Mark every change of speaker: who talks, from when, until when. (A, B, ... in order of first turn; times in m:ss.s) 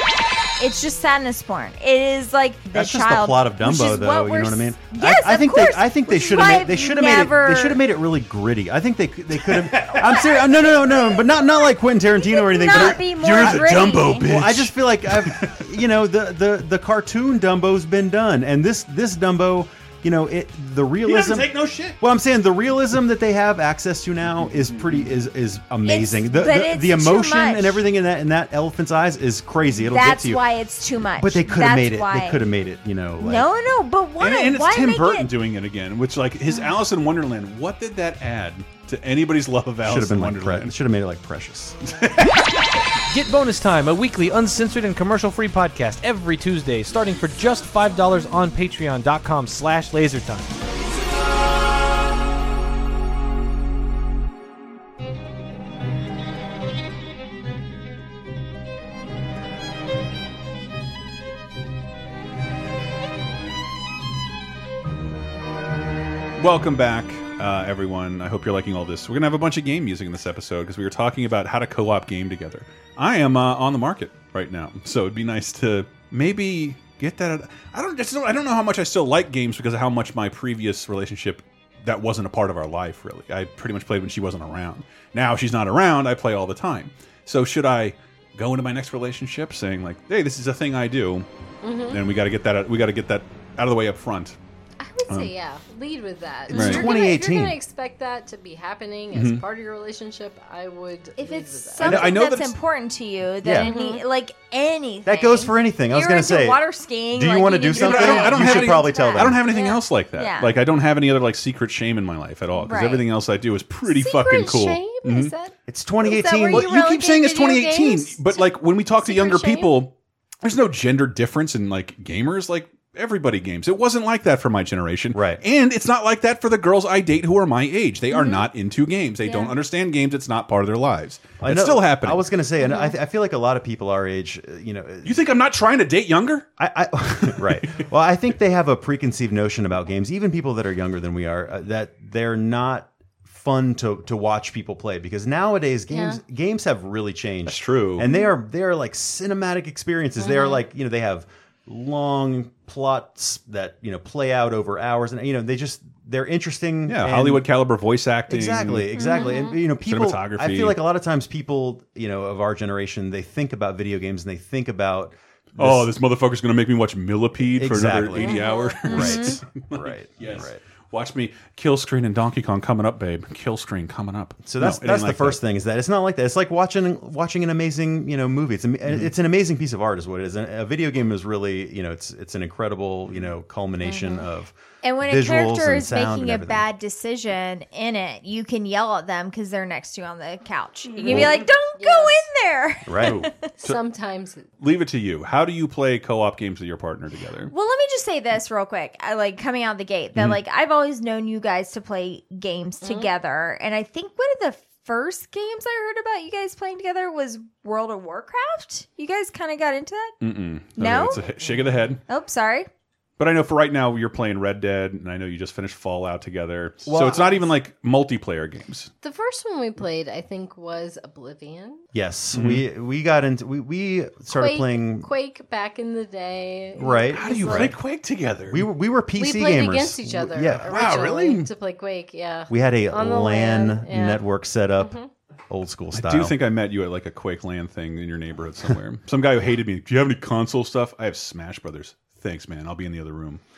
0:00.6-0:07.8 A
0:02.7-0:13.6 B
0:09.4-0:10.4 C
0:10.0-0:14.3 A
0:12.7-0:15.6 C
0:14.2-0:30.4 B
0:21.0-0:22.0 C
0:24.6-0:25.0 C
0:25.9-0:27.8 A
0:29.8-0:32.4 A
0:31.2-0:33.5 B
0:33.2-0:35.3 A
0:34.2-0:40.7 C
0:39.8-0:41.8 B
0:41.9-0:42.4 C
0:43.1-0:50.5 D
1:06.4-1:31.2 C
1:31.6-1:32.0 E
1:31.9-1:34.4 C
1:34.8-1:42.1 E
1:36.5-1:37.6 B
1:36.5-1:36.9 C
1:39.1-1:39.4 C
1:41.2-1:50.6 A
1:41.8-1:42.5 C
1:41.8-1:42.2 B
1:43.4-1:43.7 B
1:43.6-1:44.0 E
1:45.0-1:46.6 B
1:47.1-1:49.4 B
1:47.7-1:55.3 C
1:52.6-1:53.0 A
1:53.9-1:55.5 E
1:55.7-1:56.7 B
1:56.1-1:58.5 E
1:56.5-2:12.2 C
1:59.0-1:59.8 E
2:05.1-2:05.4 B
2:08.1-2:08.5 A
2:09.2-2:09.5 A
2:11.4-2:15.1 B
2:15.0-2:16.5 C
2:16.6-2:37.4 B
2:17.1-2:17.9 C
2:25.9-2:26.2 E
2:27.5-2:28.1 C
2:30.2-2:30.5 E
2:36.9-2:38.9 C
2:38.3-2:45.9 B
2:38.9-2:39.5 A
2:39.1-2:39.5 E
2:39.8-2:40.8 C
2:45.6-2:55.4 C
2:47.5-2:50.6 B
2:48.2-2:48.8 E
2:48.8-2:49.4 A
2:54.4-3:06.6 B
3:03.8-3:04.3 E
3:04.8-3:13.4 A
3:11.0-3:12.2 E
3:11.1-3:11.4 C
3:12.9-3:13.2 B
3:13.0-3:13.8 C
3:13.6-3:14.5 E
3:14.6-3:17.5 C
3:17.5-3:30.1 A
3:22.8-3:23.1 E
3:30.2-3:32.0 C
3:30.8-3:31.2 A
3:32.1-3:32.7 A
3:33.2-3:38.9 C
3:36.8-3:37.5 B
3:39.0-3:41.8 E
3:41.9-3:45.1 B
3:42.3-3:42.6 C
3:44.3-3:47.8 E
3:46.8-3:47.8 B
3:47.1-3:48.7 C
3:48.5-3:50.8 B
3:49.2-3:54.2 E
3:50.6-3:51.5 C
3:52.5-3:54.9 B
3:54.8-3:55.1 E
3:55.5-3:56.4 B
3:55.9-4:03.4 C